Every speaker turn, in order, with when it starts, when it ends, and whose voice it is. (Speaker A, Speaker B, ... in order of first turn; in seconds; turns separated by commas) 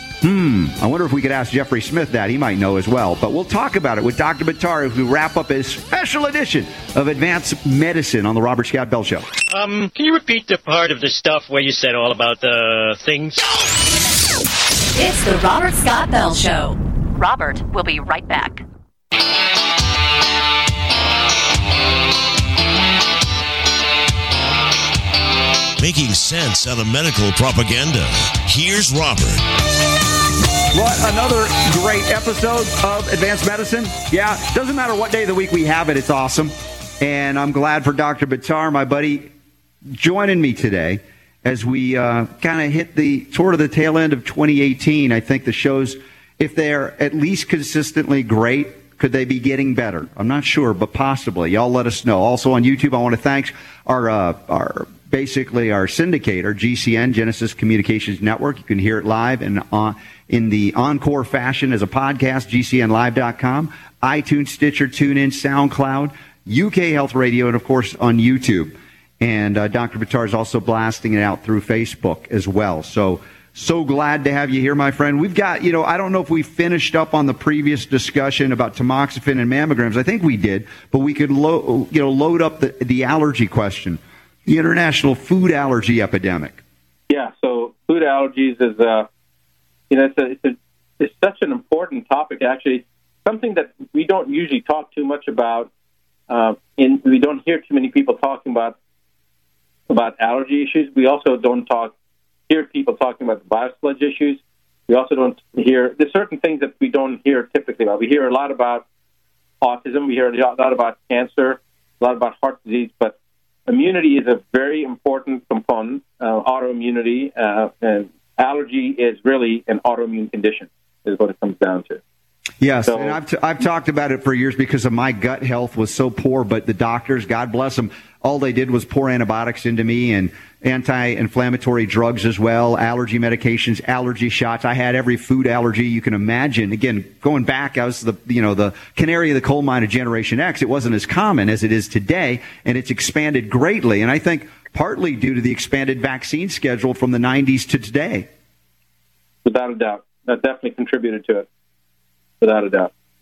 Speaker A: 0.2-9.3, Speaker B: 9.5-13.5, Speaker C: 14.9-18.6, Speaker D: 25.8-29.4, Speaker A: 30.7-39.3, Speaker A: 39.9-86.6, Speaker E: 87.1-89.1, Speaker E: 89.9-95.7, Speaker E: 96.3-98.8, Speaker E: 99.9-101.9, Speaker E: 102.5-108.8, Speaker E: 109.6-113.2, Speaker E: 113.7-122.0, Speaker A: 122.6-148.3, Speaker E: 122.9-123.2, Speaker E: 149.4-151.4, Speaker E: 152.4-152.9